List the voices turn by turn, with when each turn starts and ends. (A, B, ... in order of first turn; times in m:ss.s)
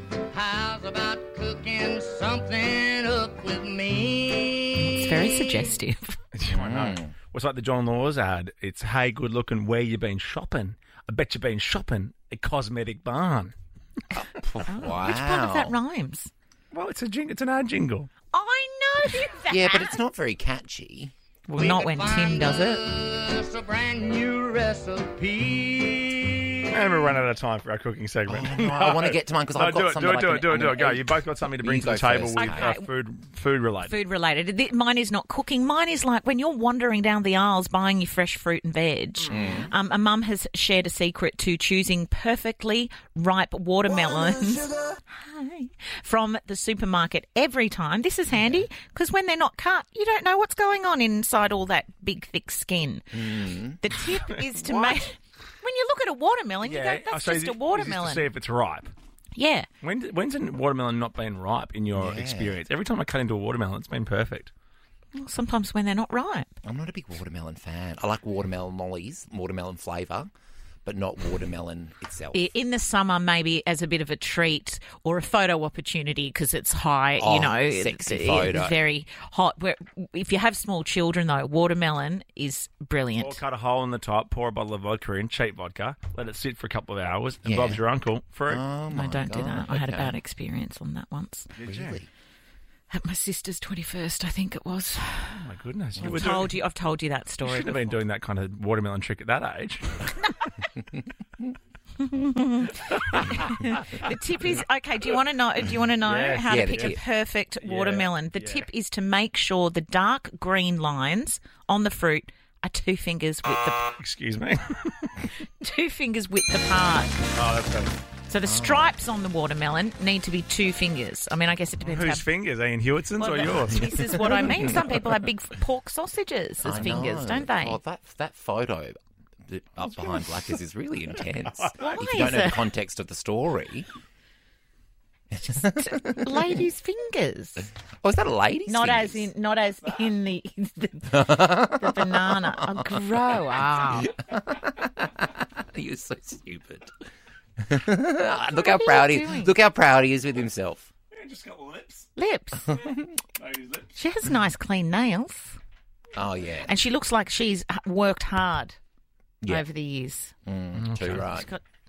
0:00.3-0:05.7 A
0:04.8-0:06.2 B
0:06.3-0:13.5 C
0:06.5-0:07.1 D
0:14.1-0:15.8 D
0:14.6-0:16.3 B
0:16.7-0:18.1 C
0:18.3-0:20.0 B
0:19.5-0:21.1 D
0:21.5-0:22.8 B
0:21.6-0:26.8 A
0:26.7-0:33.9 C
0:28.3-0:32.7 D
0:32.4-0:32.9 B
0:33.9-0:58.3 B
0:39.3-0:39.7 D
0:53.1-0:53.8 D
0:54.3-0:54.9 C
0:56.6-0:58.9 C
0:59.4-0:59.7 B
0:59.8-1:04.5 C
1:01.9-1:02.6 D
1:05.1-1:06.5 B
1:06.6-1:10.3 D
1:10.8-1:12.4 D
1:12.3-1:23.4 B
1:17.2-1:18.8 D
1:23.2-1:28.6 C
1:27.4-1:27.8 D
1:28.5-1:30.1 D
1:28.9-1:31.5 B
1:31.6-1:32.0 C
1:31.6-1:32.1 D
1:32.9-1:35.4 B
1:35.3-1:36.6 C
1:36.0-1:37.9 B
1:37.4-1:40.1 C
1:42.0-1:53.9 B
1:43.1-1:43.6 C
1:46.0-1:47.0 C
1:46.5-1:47.0 D
1:47.6-1:48.7 C
1:53.9-1:55.2 C
1:55.4-1:57.2 B
1:57.4-1:57.9 C
1:58.3-2:02.3 B
1:58.4-1:58.9 D
2:01.8-2:04.2 C
2:03.2-2:07.8 B
2:04.1-2:04.8 D
2:06.6-2:13.9 D
2:11.6-2:11.9 C
2:11.8-2:12.7 B
2:15.3-2:16.6 D
2:15.5-2:17.7 B
2:18.0-2:19.3 D
2:18.7-2:24.1 B
2:21.1-2:26.9 D
2:27.6-2:30.9 D
2:28.4-2:29.6 B
2:31.1-2:32.1 C
2:32.2-2:32.8 B
2:32.7-2:33.0 D
2:33.4-2:33.9 C
2:34.0-2:35.6 B
2:36.1-2:36.7 D
2:36.6-2:38.8 B
2:39.4-2:39.7 D
2:39.5-2:40.3 B
2:40.4-2:41.5 D
2:40.8-2:41.3 C
2:41.2-2:41.6 B